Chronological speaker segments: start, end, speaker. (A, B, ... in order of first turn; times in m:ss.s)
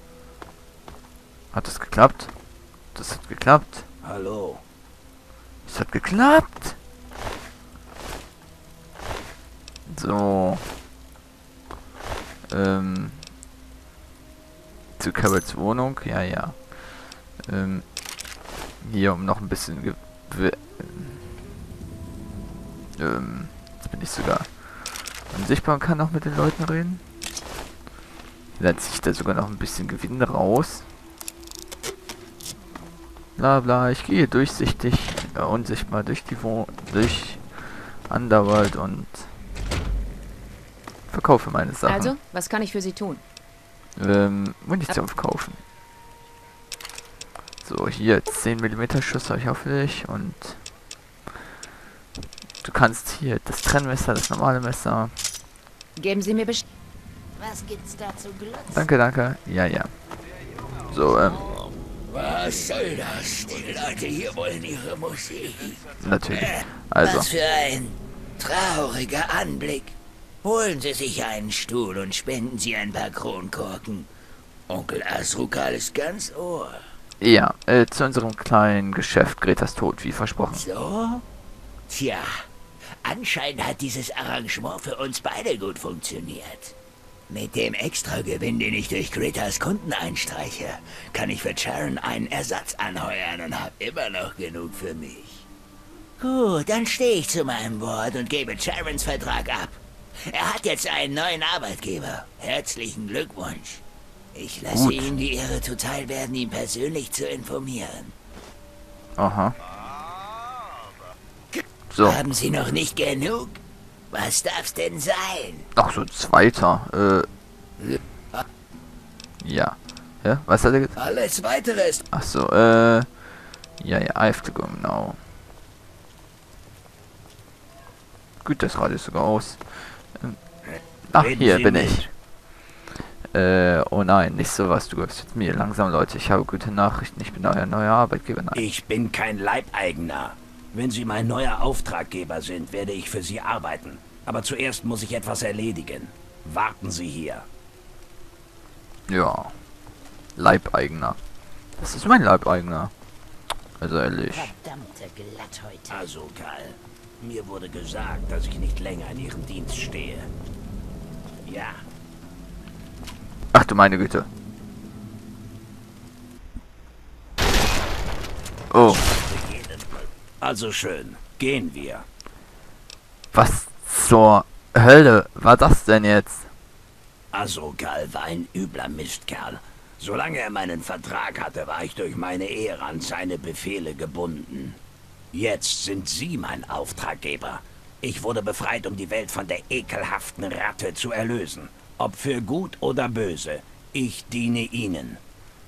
0:01.5-0:02.3 A
0:02.9-0:03.8 A
0:04.0-0:04.6 B
0:05.6-0:06.8 A
0:09.9-0:10.6 A
0:12.5-0:13.3 A
0:15.0-0:16.7 A
0:17.4-0:17.9 A
0:18.8-0:21.2 A
0:23.0-0:27.0 A
0:28.6-0:30.9 A
0:33.4-0:39.3 A
0:41.1-0:42.1 A
0:41.8-0:43.2 C
0:44.0-0:45.6 A
0:47.6-0:50.6 A
0:52.6-0:55.1 A
0:56.0-0:56.6 C
0:57.4-0:58.9 D
0:58.7-0:59.9 A
1:00.9-1:01.5 A
1:02.1-1:14.1 D
1:06.0-1:07.3 A
1:14.7-1:16.8 D
1:17.2-1:20.6 A
1:20.4-1:21.2 D
1:21.9-1:22.4 D
1:23.0-1:26.7 D
1:27.3-1:35.4 D
1:36.2-1:43.8 D
1:44.3-1:48.1 D
1:44.7-1:45.1 A
1:49.2-1:49.5 A
1:51.9-1:52.2 A
1:52.0-1:53.6 D
1:54.1-1:55.7 D
1:55.7-1:57.3 A
1:59.4-2:01.0 A
2:00.9-2:02.0 D
2:02.1-2:03.2 A
2:03.8-2:05.2 A
2:08.4-2:10.4 A
2:10.7-2:12.0 B
2:11.1-2:12.1 A
2:13.2-2:18.6 A
2:18.5-2:27.4 B
2:29.1-2:29.5 A
2:30.4-2:31.2 A
2:31.8-2:32.9 A
2:33.8-2:34.5 A
2:34.3-2:36.0 D
2:35.9-2:40.3 B
2:41.4-2:41.8 B
2:43.5-2:44.3 A
2:48.7-2:49.0 A
2:48.7-2:52.0 B
2:53.3-2:56.5 A
2:57.3-3:04.8 B
3:05.3-3:15.2 B